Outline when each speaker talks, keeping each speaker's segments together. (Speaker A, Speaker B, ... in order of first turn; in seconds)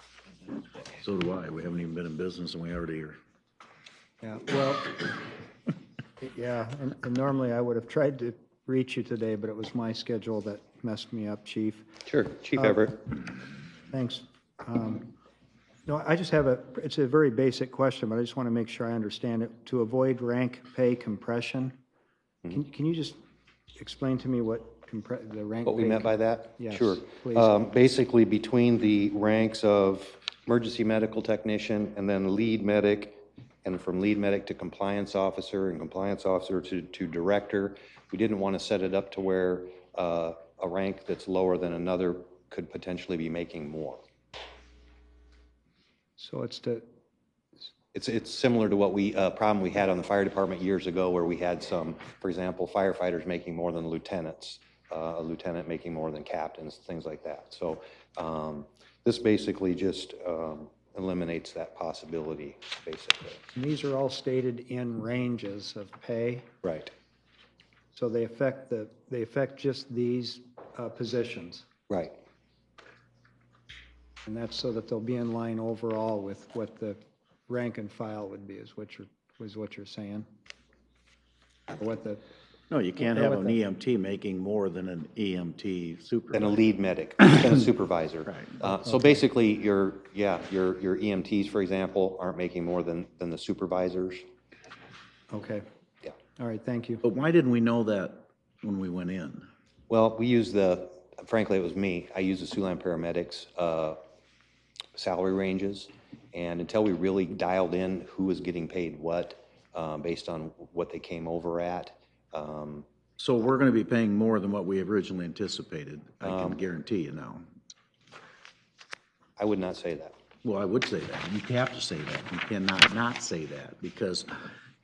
Speaker A: 1.0-3.2, 82.7-86.6, 88.3-88.6, 97.0-99.5, 113.2-117.5, 120.4-124.3
Speaker B: 4.2-5.1, 6.2-11.9, 12.6-12.9, 13.9-15.1, 15.9-21.8, 22.5-23.2, 23.8-27.6, 46.2-46.8, 63.5-66.5, 67.9-71.7, 74.3-80.3, 81.8-82.2, 83.0-83.6, 95.3-95.6, 96.4-97.0
Speaker C: 12.1-13.0, 25.6-44.0, 47.9-63.5, 66.6-66.9, 71.9-72.2, 86.3-94.2, 99.9-104.0, 105.0-112.9, 116.2-116.6, 119.4-120.2